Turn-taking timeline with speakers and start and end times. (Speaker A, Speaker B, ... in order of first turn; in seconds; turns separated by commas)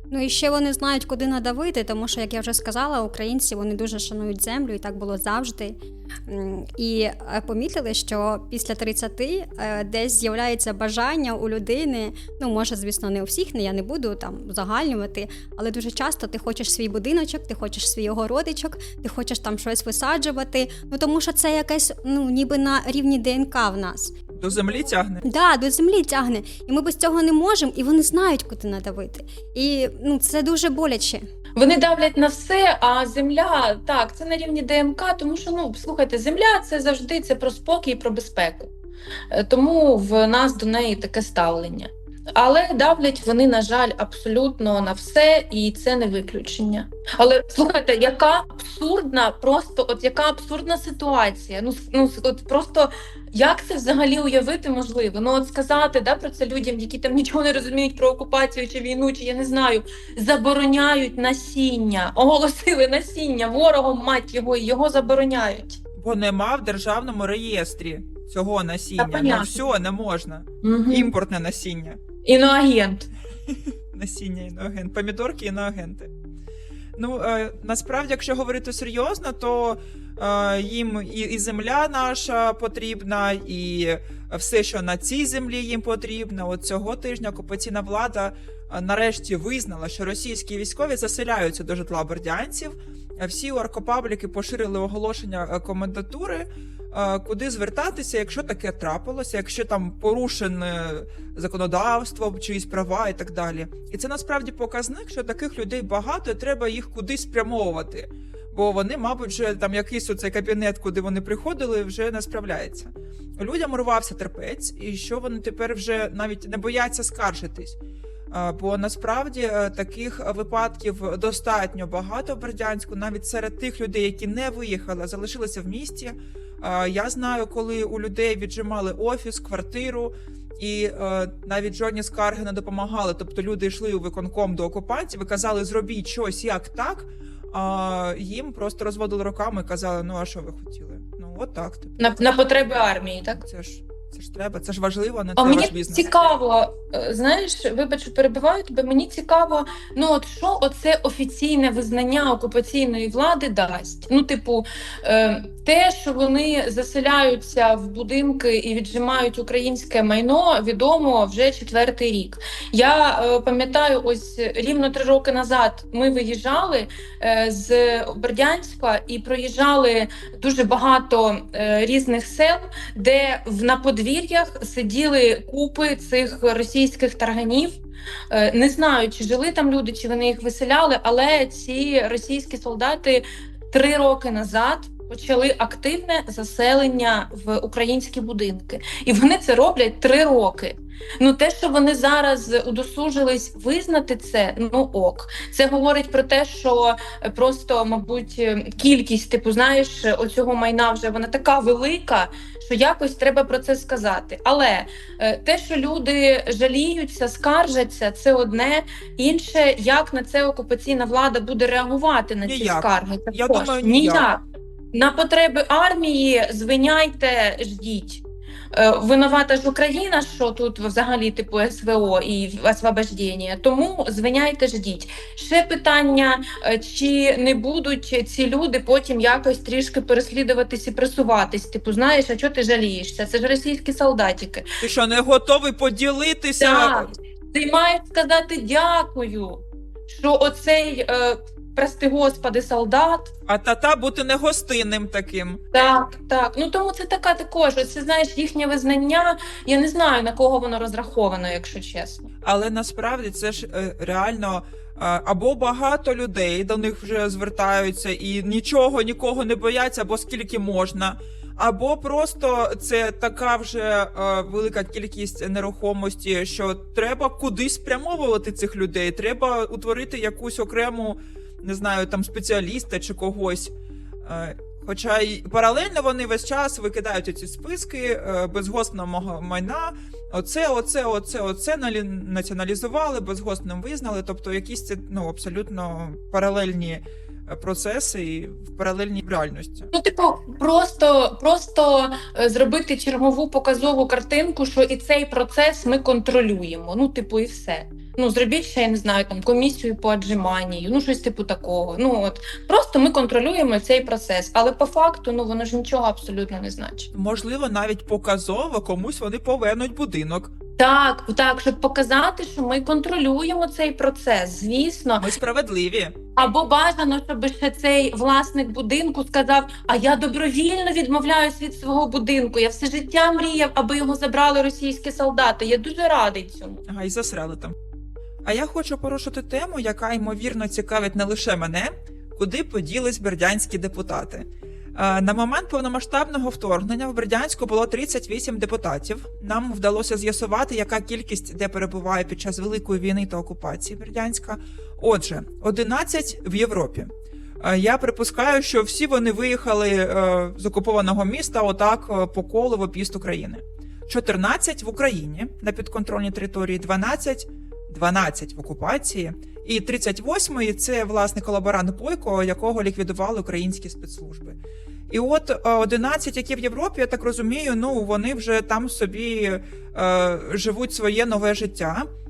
Speaker A: 0.1-5.8, Speaker A: 6.3-24.1, Speaker B: 24.4-25.2, Speaker A: 25.2-31.2, Speaker C: 31.6-38.7, Speaker C: 39.3-65.8, Speaker B: 65.9-72.0, Speaker C: 69.0-69.6, Speaker C: 70.6-71.1, Speaker C: 72.2-73.1, Speaker B: 73.5-76.1, Speaker B: 77.0-117.8, Speaker B: 118.3-142.3, Speaker C: 142.0-143.4, Speaker B: 143.4-146.2, Speaker C: 145.4-177.8, Speaker C: 178.3-214.4, Speaker B: 212.4-214.3, Speaker C: 214.9-234.7, Speaker B: 234.8-237.1, Speaker C: 236.6-243.3, Speaker B: 243.5-245.6, Speaker C: 245.7-252.3, Speaker B: 252.4-273.7, Speaker B: 274.2-289.9, Speaker C: 289.9-307.1, Speaker B: 307.1-310.5, Speaker C: 310.8-315.3, Speaker B: 315.2-316.1, Speaker C: 316.4-326.8, Speaker B: 326.9-327.7, Speaker B: 328.4-364.6, Speaker B: 365.1-372.1